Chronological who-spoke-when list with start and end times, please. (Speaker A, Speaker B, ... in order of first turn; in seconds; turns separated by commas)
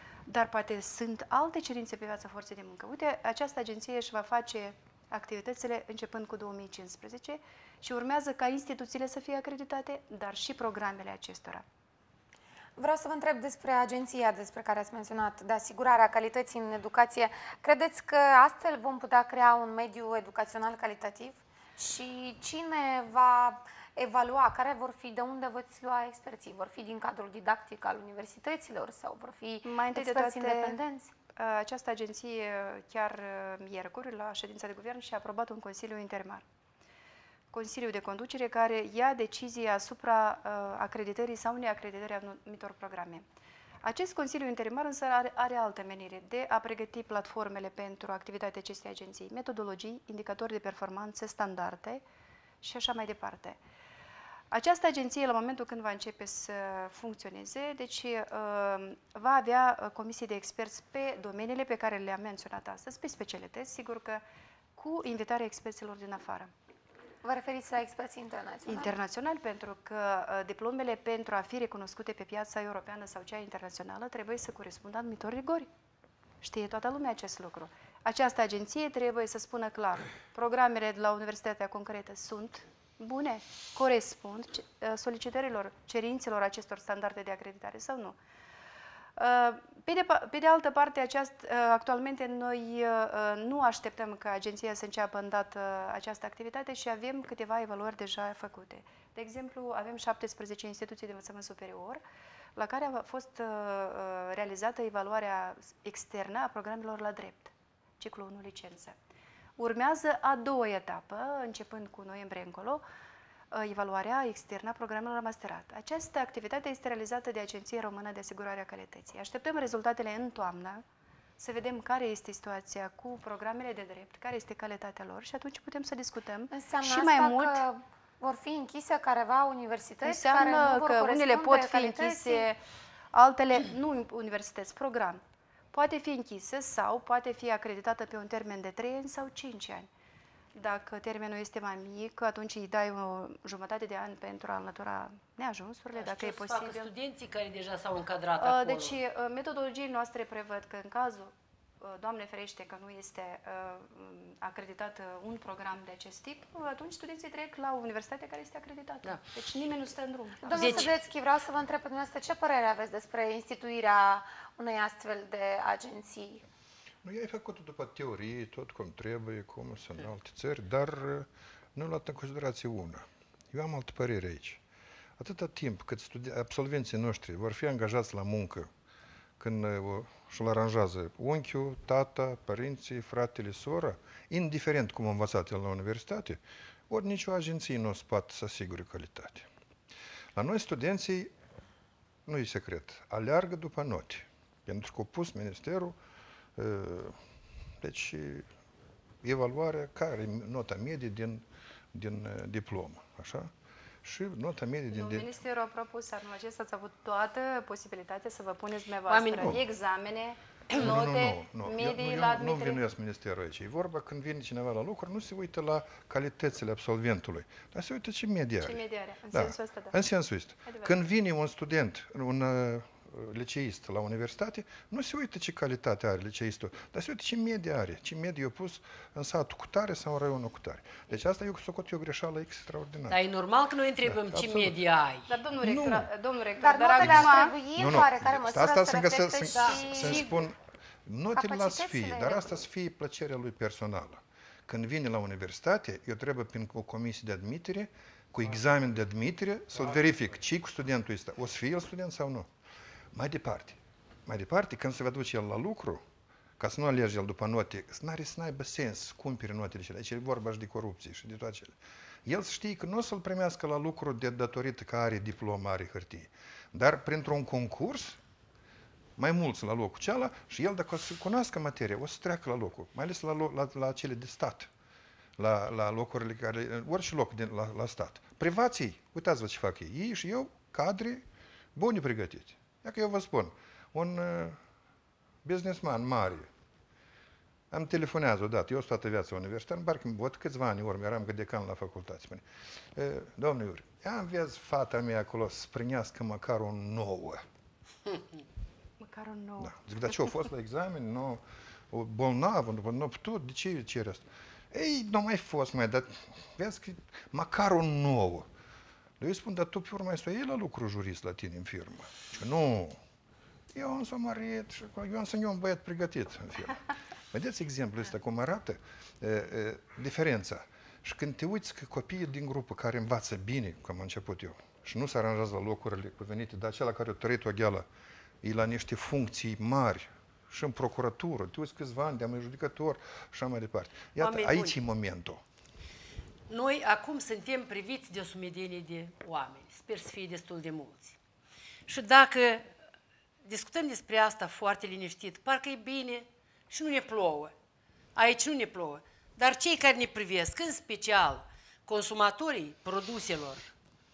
Speaker A: 0.3-11.6, Speaker B: 12.8-31.1, Speaker A: 29.6-30.8, Speaker A: 31.3-36.4, Speaker A: 37.5-43.2, Speaker A: 43.8-52.0, Speaker A: 52.6-53.6, Speaker A: 54.5-64.2, Speaker A: 64.8-66.5, Speaker B: 67.2-68.9, Speaker A: 68.7-75.7, Speaker A: 76.4-88.2, Speaker A: 89.2-102.0, Speaker A: 102.5-108.9, Speaker A: 109.6-112.8, Speaker A: 113.5-120.8, Speaker A: 121.4-127.6, Speaker B: 126.5-132.4, Speaker A: 130.0-132.6, Speaker A: 133.1-135.2, Speaker A: 135.7-139.9, Speaker A: 140.5-146.9, Speaker C: 145.9-148.9, Speaker A: 148.4-160.9, Speaker B: 160.4-166.4, Speaker C: 160.5-160.9, Speaker D: 167.0-174.6, Speaker D: 175.2-178.7, Speaker D: 179.4-189.5, Speaker D: 190.3-191.3, Speaker D: 192.3-195.9, Speaker D: 196.6-197.2, Speaker D: 197.8-198.4, Speaker D: 199.2-203.5, Speaker D: 204.0-205.3, Speaker A: 204.9-212.8, Speaker C: 209.1-209.6, Speaker D: 210.7-233.2, Speaker A: 218.6-219.9, Speaker A: 220.7-221.0, Speaker C: 233.1-235.3, Speaker D: 234.0-234.8, Speaker A: 235.3-237.6, Speaker D: 235.6-236.1, Speaker B: 236.6-240.3, Speaker D: 237.0-240.5, Speaker A: 239.3-240.2, Speaker C: 239.5-239.8, Speaker D: 241.1-252.5, Speaker B: 241.3-242.6, Speaker D: 253.1-256.0, Speaker D: 256.6-268.2, Speaker D: 269.2-274.7, Speaker D: 275.4-284.6, Speaker D: 285.4-286.5, Speaker D: 287.7-292.4, Speaker D: 292.9-297.4, Speaker A: 299.0-299.8, Speaker D: 299.6-308.5, Speaker D: 309.2-313.0, Speaker D: 313.7-316.8, Speaker D: 317.3-327.9, Speaker D: 328.4-335.4, Speaker C: 334.2-334.8, Speaker C: 336.5-341.2, Speaker C: 341.9-342.7, Speaker C: 343.4-347.5, Speaker C: 348.1-353.7